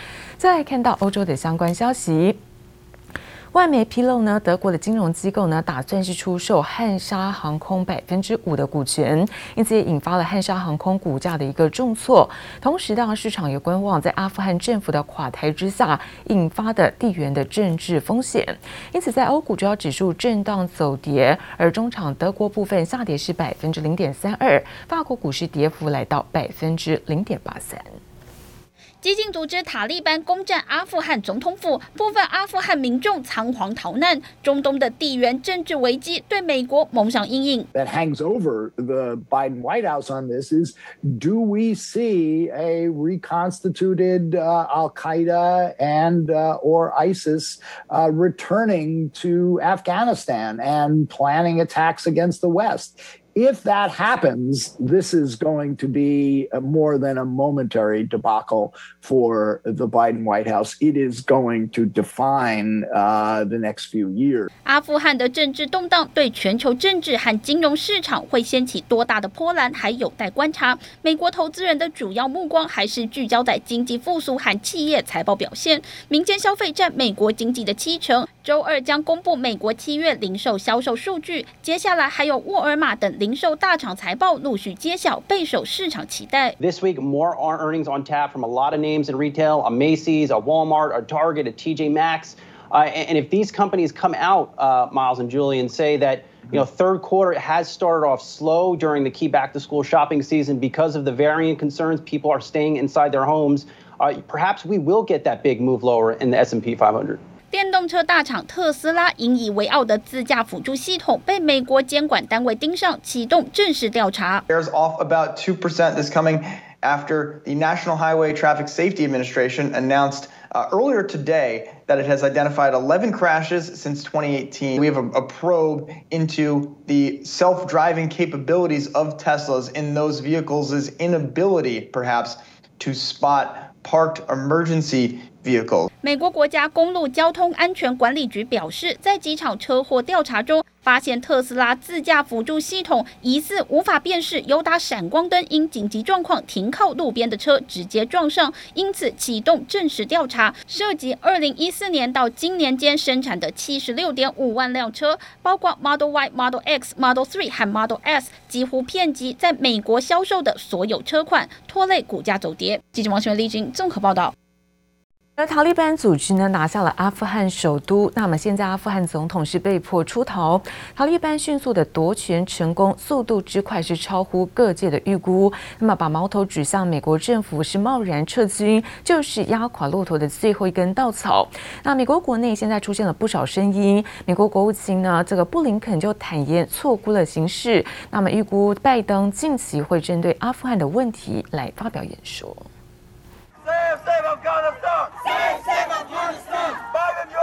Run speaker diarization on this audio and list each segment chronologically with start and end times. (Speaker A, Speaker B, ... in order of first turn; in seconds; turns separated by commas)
Speaker A: 0.4-2.4, Speaker A: 3.5-27.9, Speaker B: 29.0-37.7, Speaker C: 37.7-64.5, Speaker B: 64.7-86.5, Speaker D: 86.6-107.2, Speaker B: 107.5-114.4, Speaker E: 114.5-135.9, Speaker B: 136.0-164.3, Speaker A: 165.4-192.7